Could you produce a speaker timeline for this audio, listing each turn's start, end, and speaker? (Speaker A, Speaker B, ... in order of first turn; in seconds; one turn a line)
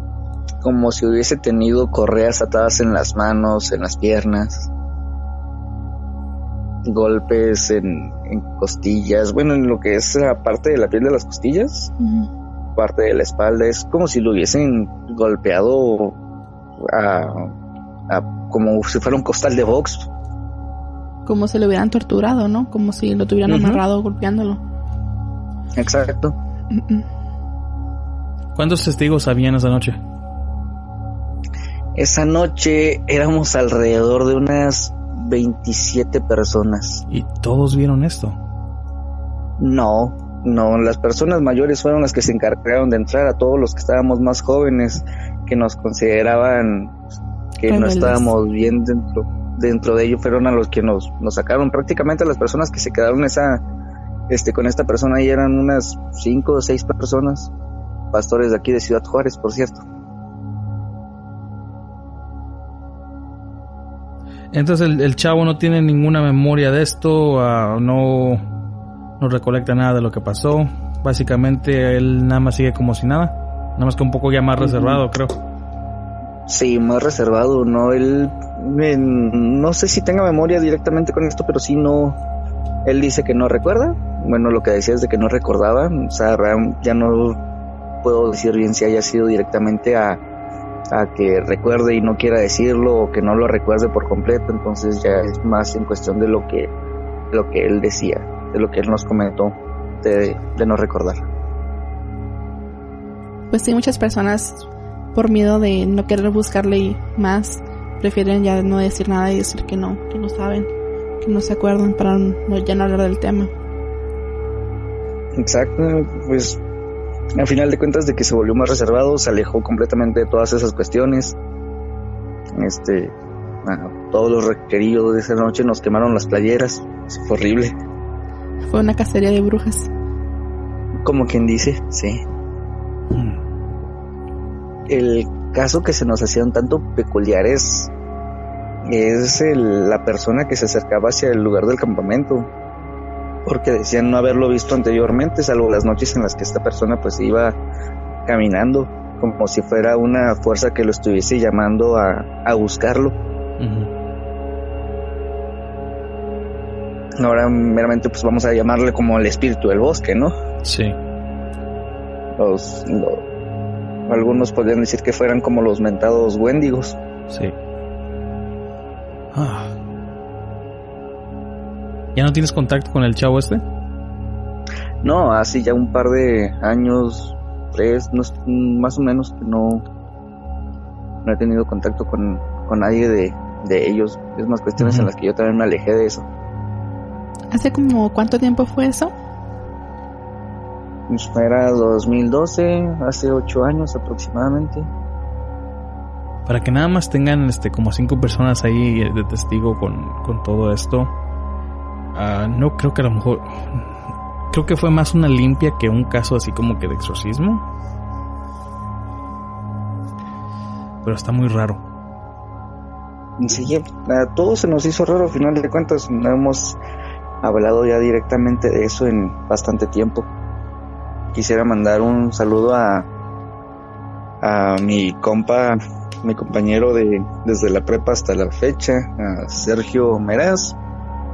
Speaker A: 0.6-4.7
Speaker A: 6.8-11.9
Speaker B: 12.0-12.3
Speaker A: 12.8-16.1
Speaker A: 16.8-17.5
Speaker A: 18.1-20.1
Speaker B: 21.2-24.6
Speaker C: 23.5-23.8
Speaker A: 25.7-26.4
Speaker B: 26.7-27.0
Speaker C: 28.5-30.0
Speaker A: 31.9-37.0
Speaker C: 37.1-38.3
Speaker A: 39.6-47.0
Speaker A: 47.6-53.6
Speaker B: 47.6-48.3
Speaker A: 54.3-57.5
Speaker A: 58.1-59.8
Speaker C: 64.5-68.4
Speaker C: 69.2-75.4
Speaker A: 76.5-82.2
Speaker A: 82.8-87.4
Speaker A: 88.0-90.2
Speaker A: 90.9-96.7
Speaker A: 97.3-101.2
Speaker B: 103.5-110.7
Speaker B: 111.2-113.5
Speaker A: 115.3-116.6
Speaker A: 117.3-121.3
Speaker A: 122.5-123.1
Speaker A: 123.6-127.7
Speaker B: 128.6-129.9
Speaker A: 131.0-132.2
Speaker C: 133.1-133.4
Speaker A: 134.9-137.9
Speaker A: 138.8-142.5
Speaker A: 143.4-147.6
Speaker A: 148.2-153.1
Speaker C: 153.6-153.9
Speaker A: 157.2-160.3
Speaker C: 160.6-160.9
Speaker A: 162.4-163.2
Speaker A: 164.1-167.0
Speaker C: 169.3-169.8
Speaker C: 172.1-173.6
Speaker A: 175.0-179.8
Speaker A: 181.2-186.2
Speaker C: 184.8-185.1
Speaker B: 187.5-189.1
Speaker A: 191.1-194.9
Speaker C: 196.4-201.1
Speaker C: 202.1-203.9
Speaker C: 204.5-207.6
Speaker C: 211.0-211.8
Speaker A: 213.4-216.8
Speaker A: 217.4-220.3
Speaker A: 221.3-223.1
Speaker A: 224.4-230.8